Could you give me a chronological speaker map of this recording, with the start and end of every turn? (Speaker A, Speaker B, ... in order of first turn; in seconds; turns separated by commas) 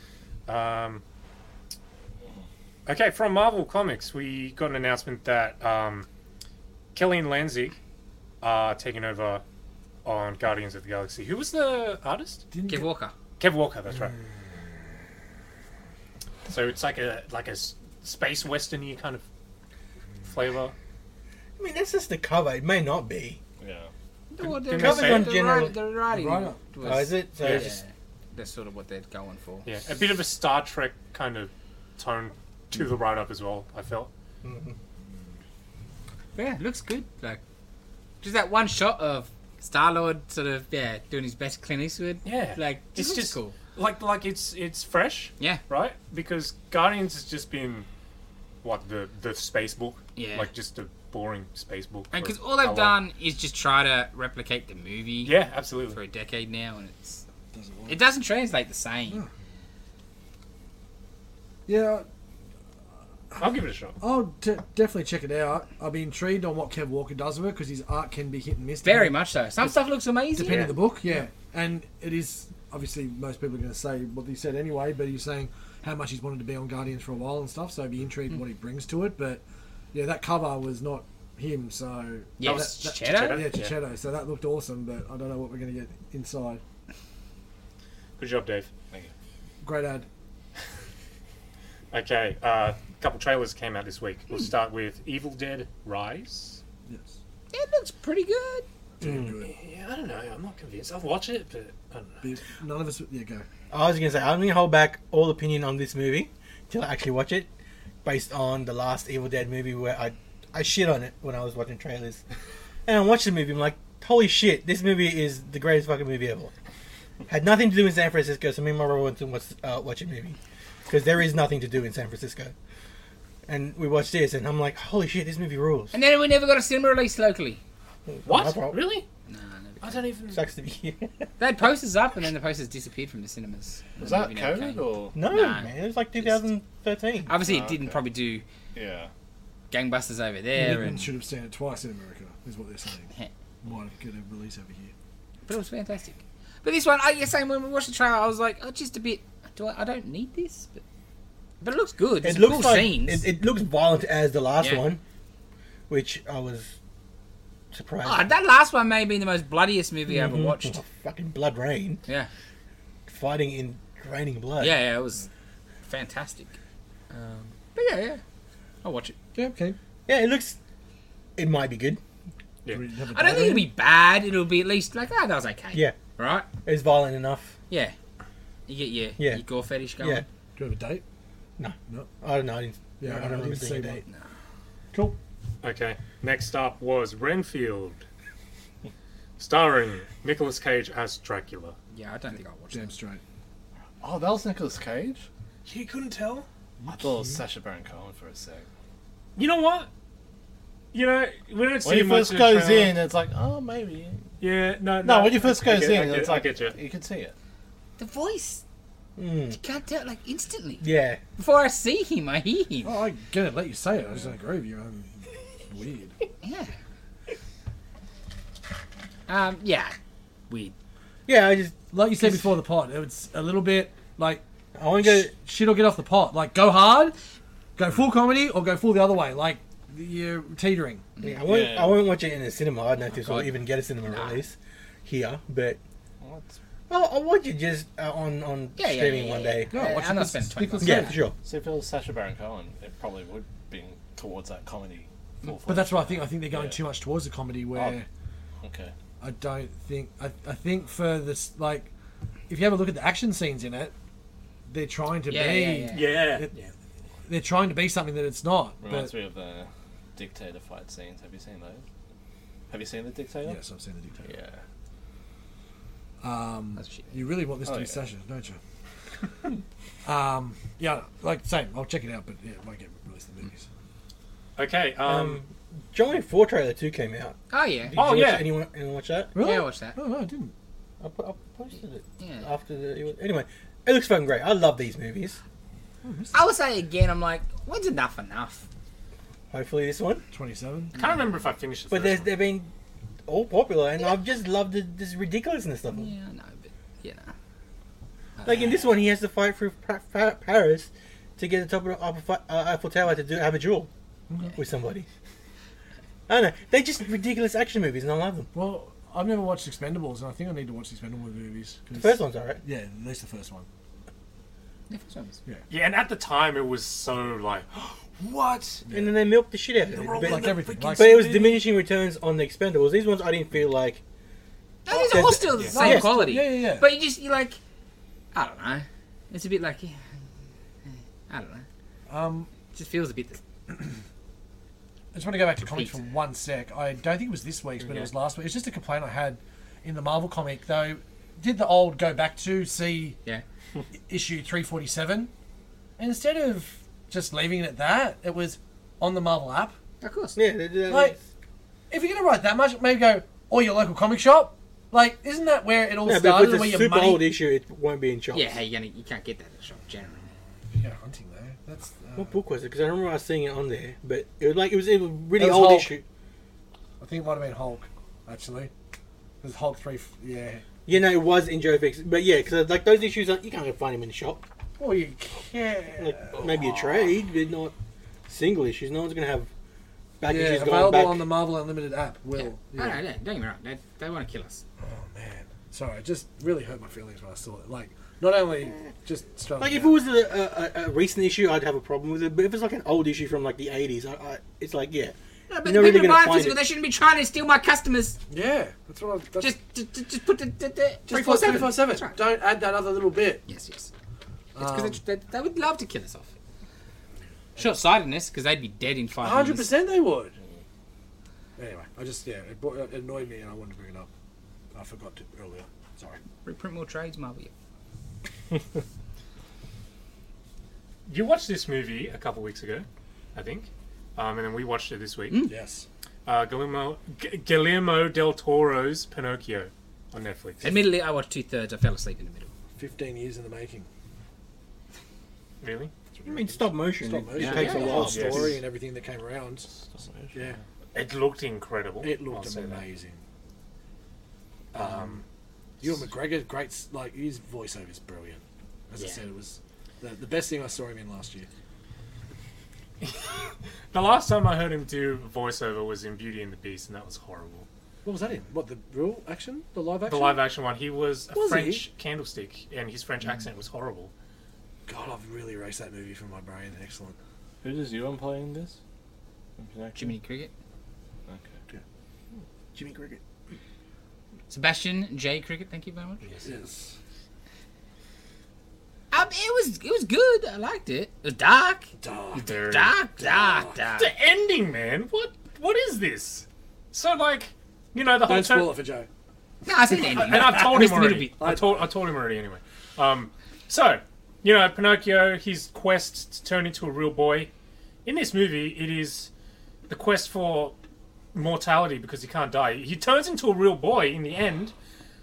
Speaker A: 0.5-1.0, Speaker A: 2.9-6.1, Speaker A: 6.9-7.8, Speaker A: 8.4-9.4, Speaker A: 10.0-12.4, Speaker B: 12.5-12.9, Speaker C: 12.7-13.1, Speaker A: 13.4-14.1, Speaker B: 13.9-14.3, Speaker A: 16.5-19.2, Speaker A: 20.2-20.7, Speaker D: 21.6-23.4, Speaker E: 23.6-23.9, Speaker C: 24.3-29.7, Speaker A: 24.4-25.3, Speaker D: 24.7-25.7, Speaker B: 26.1-26.6, Speaker D: 26.8-27.7, Speaker A: 27.4-27.8, Speaker A: 29.6-34.1, Speaker D: 34.4-34.8, Speaker C: 36.3-37.4, Speaker C: 38.2-43.5, Speaker A: 42.2-47.9, Speaker A: 48.6-53.0, Speaker C: 50.1-50.5, Speaker C: 52.1-55.3, Speaker A: 55.2-56.0, Speaker C: 55.9-57.2, Speaker B: 57.5-58.0, Speaker C: 57.9-59.2, Speaker B: 61.7-62.1, Speaker A: 63.4-64.0, Speaker B: 64.0-69.8, Speaker C: 68.8-70.8, Speaker B: 70.3-79.4, Speaker A: 70.4-70.7, Speaker B: 79.9-86.6, Speaker C: 82.4-83.5, Speaker A: 82.4-83.7, Speaker A: 88.2-88.7, Speaker B: 89.6-90.1, Speaker A: 91.9-96.6, Speaker B: 96.9-97.1, Speaker C: 97.5-98.7, Speaker B: 99.0-99.5, Speaker D: 99.0-99.3, Speaker A: 99.4-102.2, Speaker B: 102.2-103.5, Speaker D: 103.7-107.5, Speaker D: 108.0-112.2, Speaker D: 112.9-116.5, Speaker D: 117.3-120.4, Speaker D: 120.9-122.5, Speaker D: 123.5-125.9, Speaker C: 125.9-127.6, Speaker D: 128.1-128.8, Speaker A: 128.2-129.0, Speaker C: 129.3-130.0, Speaker A: 129.8-130.4, Speaker D: 130.3-131.2, Speaker C: 131.4-136.4, Speaker E: 134.0-135.2, Speaker D: 135.1-137.3, Speaker C: 137.3-138.4, Speaker E: 137.4-138.0, Speaker E: 138.7-139.1, Speaker C: 139.7-141.1, Speaker B: 140.5-143.1, Speaker B: 143.6-144.9, Speaker C: 145.5-150.8, Speaker C: 151.6-153.2, Speaker D: 152.2-155.0, Speaker C: 154.6-154.9, Speaker D: 155.9-156.7, Speaker D: 157.7-158.3, Speaker C: 158.0-160.8, Speaker D: 160.1-162.0, Speaker D: 163.1-164.8, Speaker C: 164.6-165.3, Speaker C: 165.9-166.5, Speaker A: 167.1-167.4, Speaker C: 167.7-168.2, Speaker C: 168.8-169.2, Speaker B: 169.3-169.8, Speaker D: 170.1-170.6, Speaker D: 171.4-172.0, Speaker B: 172.7-173.7, Speaker C: 173.1-176.5, Speaker D: 176.6-177.5, Speaker C: 177.7-177.9, Speaker C: 178.7-180.2, Speaker D: 179.2-179.4, Speaker D: 180.0-180.2, Speaker B: 180.6-181.0, Speaker D: 181.6-184.0, Speaker B: 183.0-184.0, Speaker B: 184.9-185.2, Speaker A: 185.6-188.0, Speaker A: 189.4-191.7, Speaker C: 191.9-192.9, Speaker B: 192.7-193.2, Speaker E: 194.0-195.2, Speaker A: 195.7-196.4, Speaker B: 196.8-197.4, Speaker E: 197.0-198.7, Speaker A: 199.4-199.9, Speaker A: 200.9-202.9, Speaker E: 201.8-204.3, Speaker A: 204.4-206.8, Speaker E: 205.0-207.3, Speaker C: 208.0-208.6, Speaker D: 209.2-209.6, Speaker C: 209.6-210.8, Speaker D: 210.8-211.2, Speaker C: 211.4-212.9, Speaker B: 212.8-216.2, Speaker C: 216.4-216.7, Speaker C: 219.3-219.9, Speaker C: 220.5-220.7, Speaker D: 221.3-222.6, Speaker B: 221.9-224.4, Speaker D: 224.7-225.3, Speaker B: 225.0-227.2, Speaker B: 227.8-231.0, Speaker D: 231.2-235.8, Speaker E: 231.5-232.0, Speaker C: 233.1-234.4, Speaker E: 236.2-236.6, Speaker D: 236.9-239.7, Speaker C: 238.8-241.2, Speaker B: 239.7-241.2, Speaker D: 240.8-241.3, Speaker E: 240.9-246.8, Speaker B: 245.7-248.1, Speaker E: 247.7-248.0, Speaker E: 248.6-248.9, Speaker B: 249.2-251.9, Speaker B: 252.5-253.9, Speaker B: 254.7-256.5, Speaker C: 255.3-256.1, Speaker A: 255.9-256.7, Speaker B: 257.3-259.2, Speaker E: 258.8-261.8, Speaker E: 262.7-263.6, Speaker B: 263.4-264.4, Speaker E: 264.2-264.6, Speaker B: 266.2-268.6, Speaker C: 266.8-267.3, Speaker E: 267.6-268.0, Speaker B: 270.0-273.6, Speaker A: 274.6-275.4, Speaker D: 275.0-279.3, Speaker C: 277.5-277.9, Speaker A: 277.9-278.5, Speaker B: 279.3-280.5, Speaker C: 279.4-280.0, Speaker D: 281.0-285.4, Speaker C: 282.2-282.5, Speaker B: 286.0-286.4, Speaker C: 286.3-288.6, Speaker D: 289.5-290.2, Speaker B: 290.3-290.9, Speaker A: 290.9-292.4, Speaker D: 291.9-292.7, Speaker D: 293.3-296.1, Speaker C: 295.9-297.3, Speaker C: 298.4-298.8, Speaker D: 298.4-303.9, Speaker B: 304.3-304.6, Speaker D: 304.5-305.1, Speaker D: 306.3-308.5, Speaker B: 308.5-313.6, Speaker D: 311.9-312.6, Speaker C: 314.9-315.4, Speaker A: 315.7-318.8, Speaker B: 318.9-319.2, Speaker D: 318.9-324.0, Speaker A: 319.9-321.2, Speaker B: 319.9-321.6, Speaker C: 324.9-327.6, Speaker D: 324.9-326.1, Speaker B: 325.6-326.8, Speaker C: 328.3-330.0, Speaker C: 330.9-331.6, Speaker B: 332.1-332.5, Speaker C: 332.7-333.4, Speaker B: 335.1-343.2, Speaker C: 335.6-336.0, Speaker B: 344.1-345.3, Speaker B: 346.0-349.8, Speaker C: 350.0-350.4, Speaker D: 350.4-351.2, Speaker B: 350.9-351.2, Speaker B: 351.9-357.2, Speaker D: 356.0-358.6, Speaker C: 358.3-360.3, Speaker B: 360.7-362.3, Speaker D: 362.2-366.0, Speaker B: 365.4-366.0, Speaker B: 367.0-368.7, Speaker B: 369.4-370.6, Speaker D: 370.9-374.4, Speaker B: 374.8-376.5, Speaker D: 376.0-377.7, Speaker D: 378.3-379.5, Speaker D: 380.2-381.3, Speaker B: 380.3-383.0, Speaker C: 382.3-384.6, Speaker B: 384.8-389.9, Speaker D: 389.6-396.6, Speaker C: 395.5-398.2, Speaker B: 398.3-399.6, Speaker C: 399.4-402.2, Speaker B: 401.1-403.4, Speaker C: 403.5-403.9, Speaker B: 404.5-405.0, Speaker C: 404.6-406.3, Speaker C: 407.6-409.7, Speaker B: 409.2-410.4, Speaker B: 411.6-414.1, Speaker B: 414.7-416.2, Speaker C: 416.4-417.5, Speaker A: 421.1-425.4, Speaker C: 425.3-425.5, Speaker B: 425.4-425.9, Speaker A: 426.2-430.7, Speaker C: 430.6-432.5, Speaker B: 432.8-433.9, Speaker A: 435.6-435.9, Speaker B: 436.1-439.7, Speaker D: 436.2-438.6, Speaker C: 437.4-438.2, Speaker A: 437.6-438.6, Speaker E: 439.7-440.6, Speaker B: 440.3-440.6, Speaker A: 440.9-442.9, Speaker B: 442.0-443.2, Speaker A: 444.7-445.2, Speaker B: 444.7-445.2, Speaker B: 445.8-451.5, Speaker C: 448.9-449.2, Speaker A: 453.0-457.7, Speaker B: 458.0-460.4, Speaker A: 460.1-464.1, Speaker B: 461.3-461.9, Speaker B: 464.9-467.2, Speaker E: 467.6-468.8, Speaker E: 469.6-470.1, Speaker C: 469.9-470.5, Speaker E: 471.3-471.6, Speaker D: 472.7-473.2, Speaker C: 474.5-476.4, Speaker B: 476.4-476.9, Speaker C: 479.1-481.9, Speaker B: 482.0-482.6, Speaker A: 482.3-482.9, Speaker C: 482.6-484.1, Speaker B: 483.2-483.8, Speaker A: 484.0-488.8, Speaker B: 488.2-489.1, Speaker C: 489.6-491.3, Speaker A: 489.9-497.5, Speaker B: 491.4-491.9, Speaker A: 498.0-499.3, Speaker A: 499.9-500.8, Speaker A: 501.3-504.7